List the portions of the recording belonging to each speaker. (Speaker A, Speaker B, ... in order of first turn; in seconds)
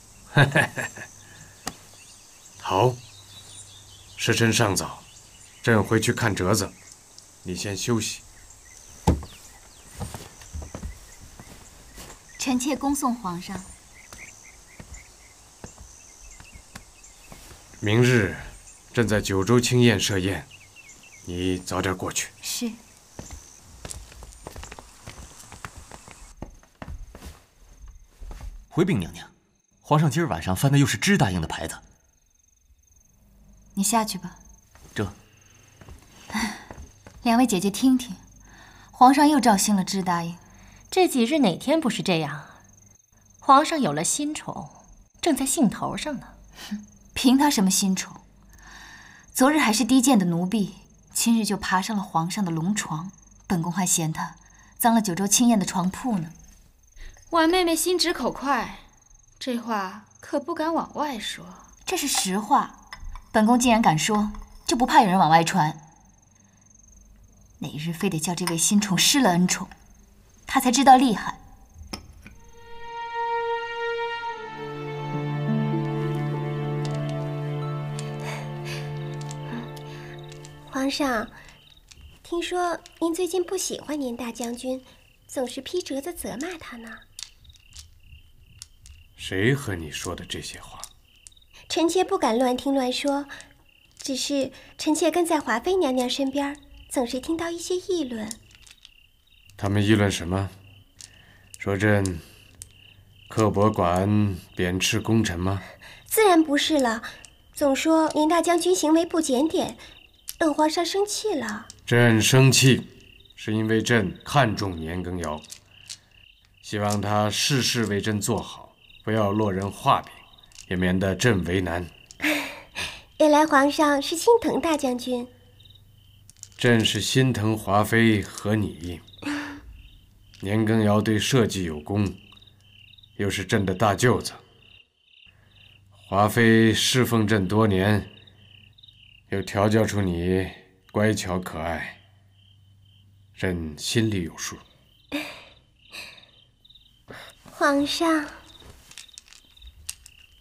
Speaker A: 0.3-0.9, 2.6-3.0, 4.2-5.0, 5.6-6.7, 7.4-8.2, 17.8-20.5, 21.2-22.3, 89.2-90.9, 99.6-100.5, 101.6-102.2, 103.3-105.7, 111.9-115.4, 116.6-121.9, 126.6-129.0, 130.4-132.2, 133.2-134.4, 136.0-138.1, 139.3-142.0, 143.4-144.6
Speaker B: 12.4-13.7, 22.4-22.8, 33.8-34.4, 37.2-38.2, 38.9-40.4, 47.1-48.2, 49.3-56.4, 61.9-62.8, 63.3-65.8, 67.6-69.7, 70.5-71.4
Speaker C: 28.7-29.3, 29.9-31.8
Speaker D: 40.9-42.6, 43.4-46.3
Speaker E: 57.3-58.8, 59.4-61.7
Speaker F: 80.7-81.3, 82.2-87.0, 91.7-93.3, 94.0-98.4, 106.1-109.8, 110.4-111.7, 123.2-125.3, 147.5-148.3